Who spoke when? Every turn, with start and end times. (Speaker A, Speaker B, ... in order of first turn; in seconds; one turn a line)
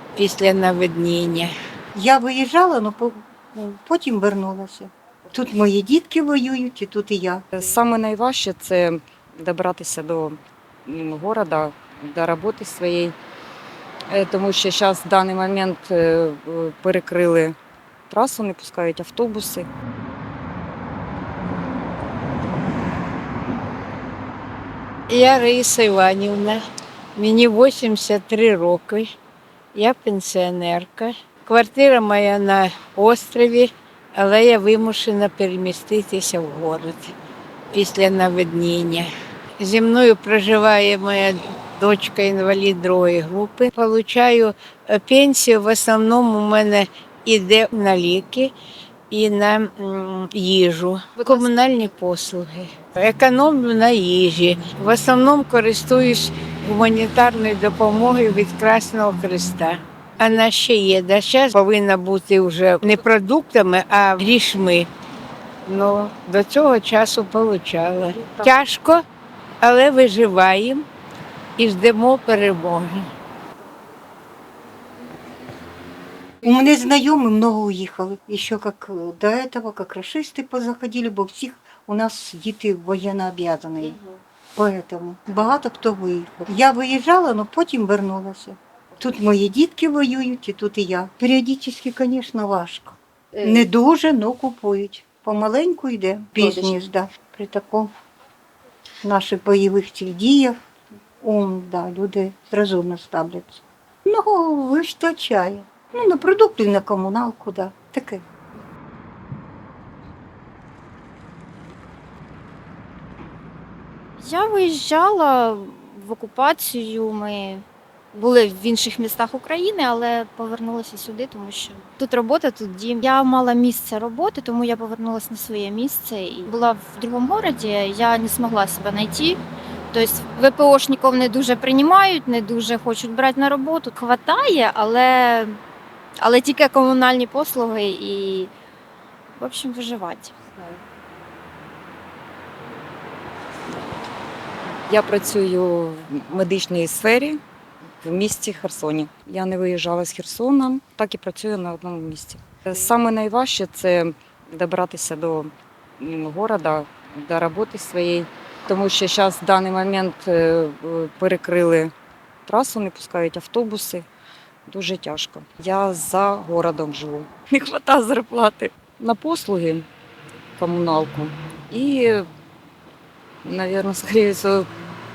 Speaker A: 0.2-1.5
Speaker B: 2.0-7.6
Speaker C: 7.5-13.2
Speaker C: 14.1-17.6
Speaker C: 18.1-19.7
Speaker A: 25.1-26.6
Speaker A: 27.1-29.1
Speaker A: 29.8-37.1
Speaker A: 37.7-48.5
Speaker A: 49.1-64.9
Speaker A: 65.7-69.0
Speaker A: 69.6-70.9
Speaker A: 71.6-73.1
Speaker B: 76.4-84.0
Speaker B: 84.6-97.9
Speaker B: 99.0-100.6
Speaker B: 101.2-108.2
Speaker D: 114.2-129.4
Speaker D: 129.9-135.6
Speaker D: 136.2-138.5
Speaker D: 139.4-140.8
Speaker C: 144.9-147.4
Speaker C: 148.0-161.9
Speaker C: 162.5-164.1
Speaker C: 164.7-169.9
Speaker C: 170.6-172.2
Speaker C: 173.4-174.7